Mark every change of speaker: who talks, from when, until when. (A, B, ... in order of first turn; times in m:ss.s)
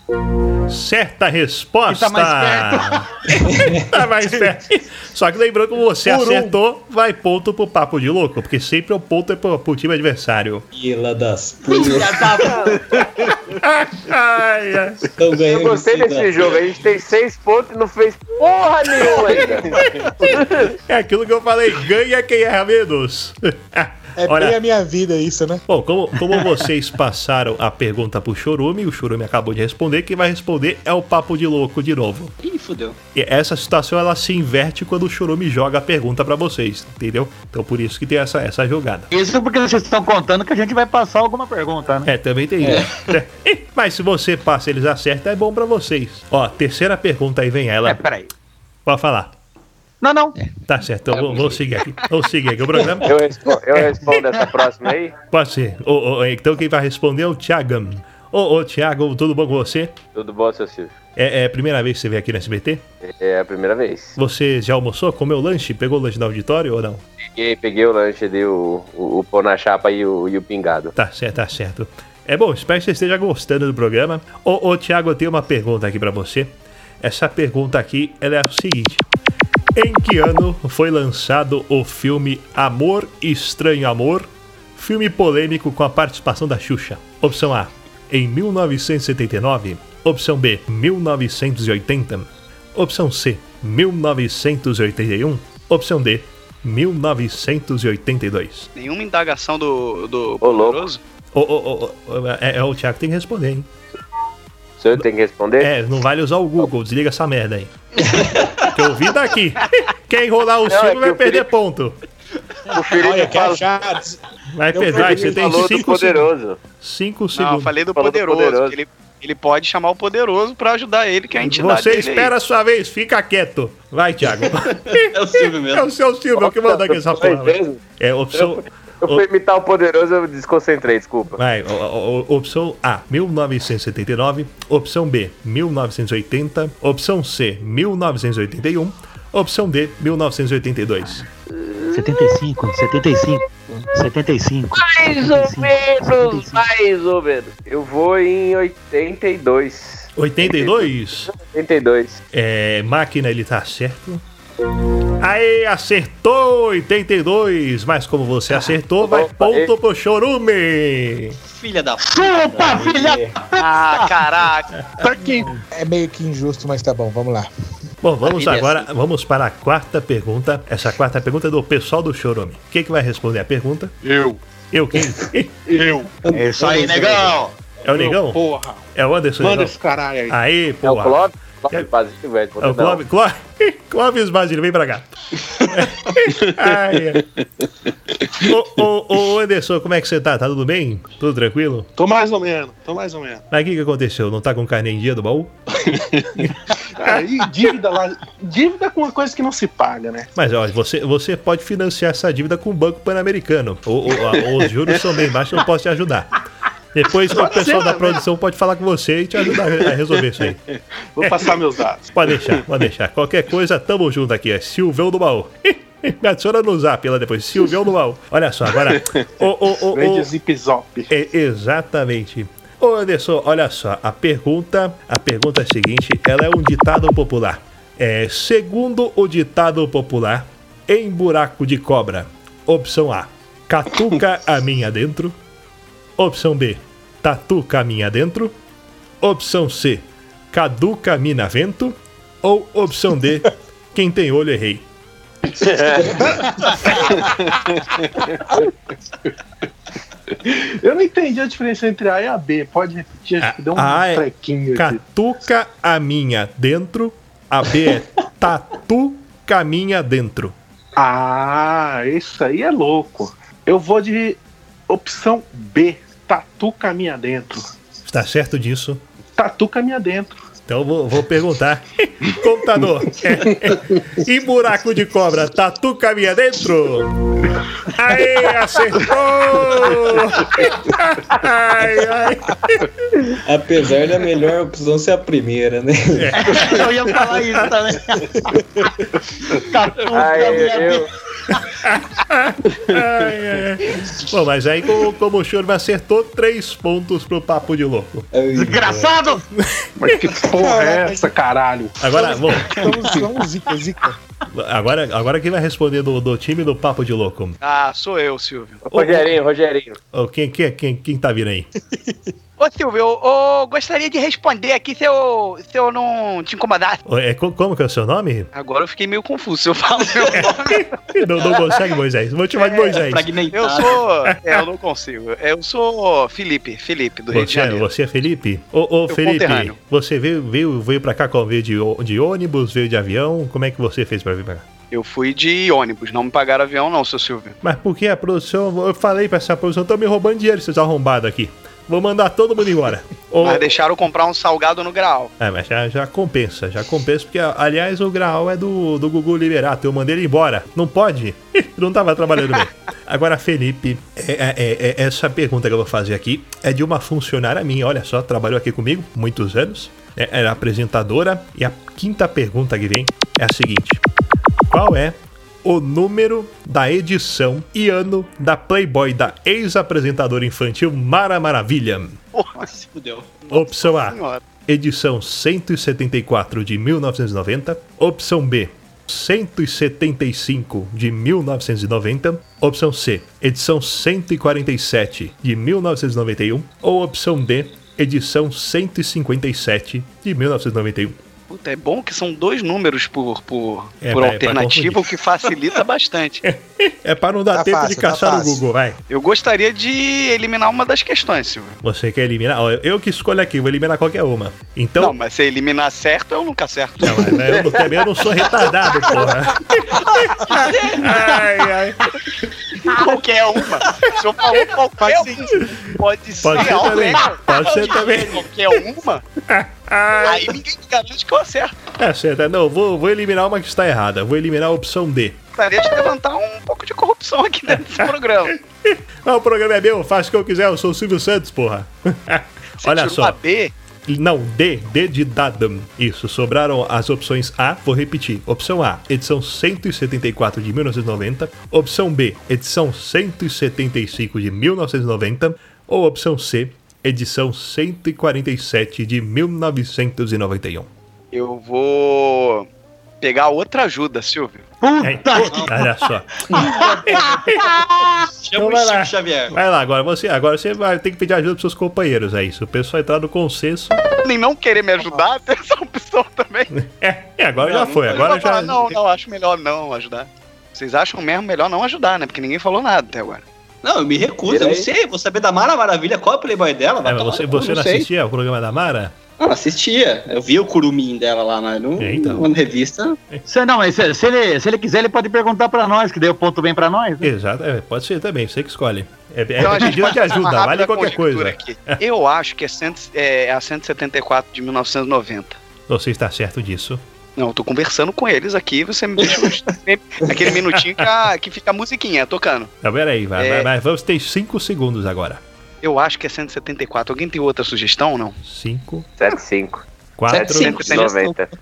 0:00.7-0:03.0 A
0:01.9-0:03.1 B
0:03.4-0:03.9 C
0:03.9-0:10.6 A
0:06.2-0:06.5 D
0:10.7-0:12.6 C
0:11.7-0:13.3 B
0:12.7-0:13.3 E
0:13.6-0:15.0 A
0:15.2-0:16.5 C
0:15.5-0:19.7 F
0:19.6-0:20.1 E
0:20.2-0:24.6 A
0:24.2-0:25.6 D
0:25.7-0:32.3 A
0:32.4-0:33.0 G
0:33.1-0:39.1 A
0:39.1-0:42.1 B
0:42.0-0:48.0 A
0:42.6-0:42.9 C
0:47.8-0:48.3 B
0:48.8-0:49.3 A
0:50.0-0:50.4 B
0:50.6-0:53.2 A
0:53.0-0:55.1 F
0:55.3-0:59.9 A
1:00.1-1:00.9 F
1:01.2-1:02.8 A
1:03.0-1:04.2 F
1:04.2-1:07.0 A
1:07.2-1:10.9 F
1:11.0-1:19.0 A
1:19.8-1:38.7 A
1:38.7-1:41.0 H
1:40.4-1:40.8 F
1:41.3-1:43.7 A
1:44.8-1:45.7 F
1:45.6-1:48.0 A
1:48.1-1:48.4 C
1:48.7-1:52.0 A
1:50.7-1:51.5 F
1:52.7-1:53.6 F
1:52.9-1:54.2 D
1:54.5-1:56.3 A
1:54.7-1:55.8 D
1:54.9-1:56.6 F
1:56.8-1:57.7 A
1:57.4-2:02.3 H
1:58.0-1:58.8 F
2:01.4-2:09.2 A
2:04.6-2:05.9 G
2:06.4-2:07.8 F
2:08.3-2:11.4 F
2:11.4-2:21.2 A
2:21.5-2:22.4 F
2:21.9-2:26.6 B
2:24.7-2:32.2 F
2:30.1-2:31.3 A
2:32.3-2:34.2 A
2:35.2-2:41.4 A
2:39.0-2:39.7 F
2:41.4-2:42.7 G
2:42.0-2:44.2 B
2:42.5-2:43.4 C
2:43.5-2:44.7 H
2:45.0-2:45.6 E
2:45.7-2:47.5 D
2:48.0-2:53.9 A
2:48.2-2:48.9 G
2:54.0-2:54.4 E
2:54.7-2:55.6 A
2:55.0-2:56.1 E
2:56.2-2:57.3 C
2:56.3-2:57.5 B
2:57.8-2:58.4 A
2:57.9-2:58.8 E
2:58.9-2:59.8 A
2:59.4-3:00.4 E
3:00.3-3:01.9 A
3:00.8-3:03.0 F
3:02.6-3:07.2 A
3:06.3-3:07.2 E
3:07.9-3:08.5 E
3:08.4-3:11.9 A
3:12.0-3:13.4 E
3:13.5-3:15.5 A
3:15.8-3:20.3 E
3:20.3-3:26.3 A
3:24.2-3:25.1 E
3:26.9-3:30.6 A
3:27.3-3:28.2 E
3:29.4-3:32.6 E
3:31.2-3:31.5 A
3:32.1-3:40.3 A
3:38.8-3:39.2 E
3:39.8-3:41.1 E
3:41.1-3:55.4 A
3:56.2-3:58.5 A
3:59.2-4:04.8 A
4:05.5-4:06.4 F
4:07.1-4:08.4 E
4:10.3-4:15.0 E
4:13.4-4:20.5 A
4:21.0-4:27.6 E
4:28.0-4:29.0 A
4:29.4-4:30.3 E
4:30.7-4:42.9 A
4:33.4-4:34.0 E
4:43.4-4:46.7 C
4:46.1-4:46.7 A
4:46.4-4:48.9 B
4:49.4-4:51.6 B
4:50.1-4:51.1 F
4:51.8-4:58.3 A
4:58.3-4:59.2 C
4:58.5-4:59.4 B
5:00.0-5:02.0 E
5:00.5-5:01.3 D
5:02.0-5:02.8 A
5:02.1-5:04.2 D
5:02.7-5:03.2 B
5:04.5-5:07.6 A
5:07.6-5:09.3 H
5:08.9-5:10.0 F
5:10.1-5:11.7 A
5:12.6-5:17.0 H
5:17.0-5:18.5 A
5:18.5-5:20.9 H
5:20.3-5:23.3 A
5:22.6-5:27.8 H
5:23.0-5:24.0 G
5:24.2-5:24.6 A
5:27.3-5:34.6 A
5:29.1-5:29.8 H
5:34.9-5:37.6 H
5:37.6-5:43.7 A
5:43.4-5:45.3 H
5:45.4-6:04.0 A
6:04.7-6:12.2 A
6:12.3-6:12.7 H
6:12.6-6:13.4 G
6:13.5-6:14.4 H
6:13.5-6:31.2 A
6:31.5-6:36.4 H
6:34.0-6:35.0 A
6:36.4-6:39.0 A
6:37.5-6:38.6 D
6:39.1-6:41.8 H
6:41.8-6:45.2 A
6:45.0-6:47.5 H
6:47.0-6:52.1 A
6:47.5-6:47.8 F
6:52.8-6:59.2 H
6:55.0-6:55.5 D
6:56.4-6:58.4 A
6:57.6-6:58.3 G
6:59.5-7:00.6 A
7:00.2-7:01.7 H
7:01.9-7:05.4 A
7:05.6-7:08.5 H
7:07.7-7:13.4 A
7:12.8-7:13.7 H
7:14.0-7:30.9 A
7:31.3-7:32.6 H
7:33.2-7:34.6 H
7:34.8-7:38.2 B
7:35.0-7:37.8 A
7:35.3-7:35.7 G
7:38.4-7:39.6 G
7:38.6-7:44.0 A
7:44.2-7:46.7 H
7:46.7-7:49.0 A
7:47.6-7:48.6 G
7:48.1-7:53.4 H
7:53.8-7:58.1 G
7:54.5-7:54.9 F
7:57.0-7:59.1 A
7:59.4-8:03.2 G
8:02.0-8:02.5 A
8:03.5-8:07.3 B
8:07.2-8:12.0 A
8:09.6-8:15.6 H
8:15.9-8:17.0 A
8:17.4-8:22.7 H
8:20.7-8:21.1 A
8:22.8-8:25.4 A
8:23.4-8:23.7 H
8:25.8-8:28.4 H
8:28.4-8:29.1 A
8:29.2-8:31.5 F
8:30.2-8:30.9 A
8:30.3-8:31.4 G
8:30.3-8:31.2 H